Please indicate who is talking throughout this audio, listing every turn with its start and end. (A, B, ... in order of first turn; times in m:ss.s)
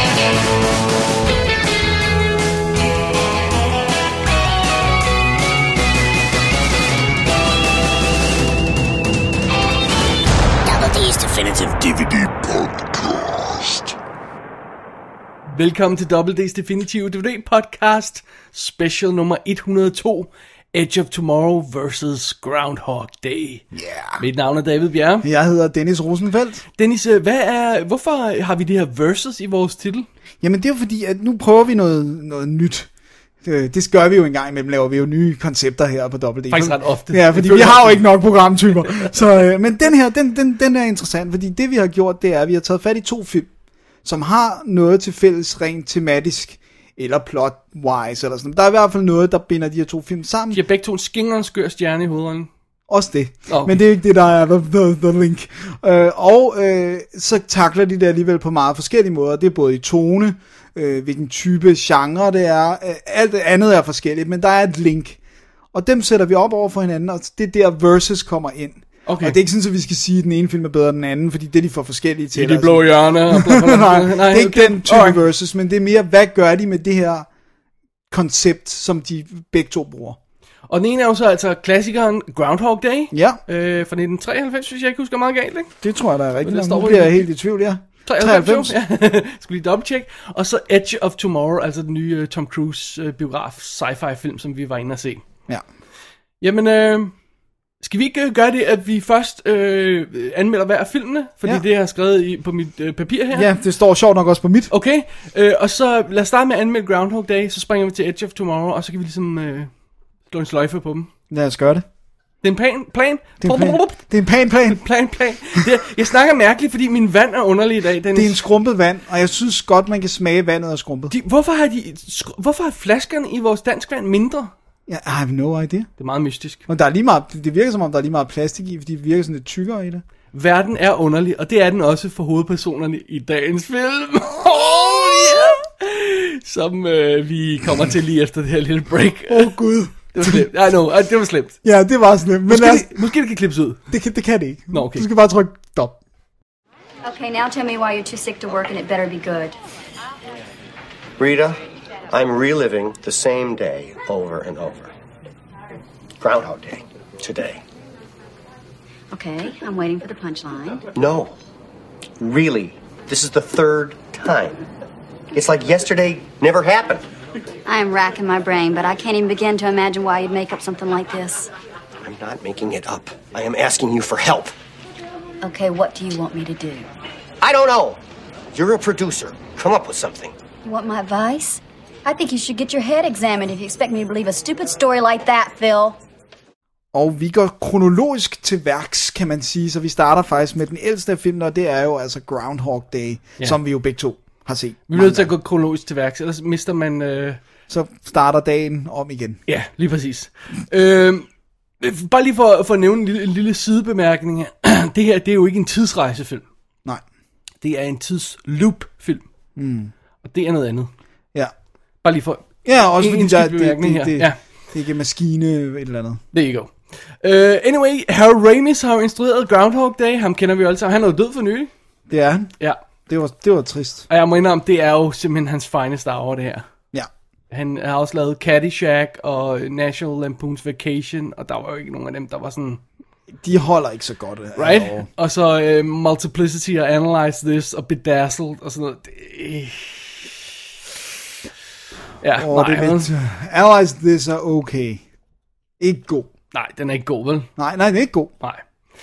0:10.7-0:13.9 A
0:15.5-0:23.7 B
0:23.8-0:24.1 C
0:24.2-0:25.3 B
0:25.2-0:26.6 C
0:26.8-0:30.1 B
0:30.4-0:32.9 C
0:33.4-0:43.5 C
0:36.5-0:38.0 B
0:44.0-0:50.6 C
0:50.5-0:52.5 B
0:52.9-1:05.2 C
0:53.5-0:53.8 B
1:05.7-1:17.3 C
1:09.1-1:09.4 B
1:12.4-1:15.2 B
1:18.1-1:20.2 C
1:20.7-1:25.7 B
1:23.1-1:23.4 C
1:25.8-1:28.8 C
1:26.4-1:27.3 B
1:28.1-1:35.2 B
1:36.4-1:37.1 B
1:37.8-1:43.5 B
1:43.3-1:44.7 C
1:44.7-1:49.7 B
1:50.3-1:51.1 B
1:51.3-1:51.8 C
1:52.4-1:54.0 B
1:53.4-1:54.8 C
1:54.7-1:58.4 B
1:58.1-2:01.1 C
2:01.1-2:04.5 B
2:04.9-2:05.9 C
2:06.0-2:06.7 B
2:06.7-2:10.0 C
2:10.3-2:21.6 B
2:19.3-2:20.5 C
2:21.6-2:23.0 C
2:22.5-2:23.8 B
2:23.9-2:26.0 C
2:24.7-2:25.1 B
2:27.0-2:29.6 D
2:31.2-2:34.9 E
2:36.2-2:37.6 E
2:39.1-2:40.8 D
2:41.0-2:41.3 E
2:42.2-2:44.7 E
2:45.3-2:47.1 E
2:47.7-2:51.5 D
2:52.0-2:54.6 E
2:55.4-2:56.9 D
2:57.4-2:58.0 E
2:58.5-3:00.4 E
3:00.6-3:06.0 D
3:06.9-3:15.3 C
3:14.9-3:17.4 B
3:17.7-3:19.4 C
3:19.5-3:21.3 B
3:21.8-3:26.4 B
3:27.6-3:29.2 B
3:29.6-3:29.9 C
3:30.2-3:30.9 B
3:32.0-3:34.4 B
3:32.6-3:36.2 C
3:36.3-3:41.7 B
3:42.1-3:42.5 C
3:43.1-3:44.1 C
3:44.1-3:46.7 B
3:47.5-3:52.8 B
3:53.4-3:55.1 C
3:54.6-4:00.5 B
4:02.2-4:03.1 B
4:02.4-4:05.0 C
4:05.8-4:06.3 C
4:06.5-4:07.5 B
4:07.6-4:08.3 C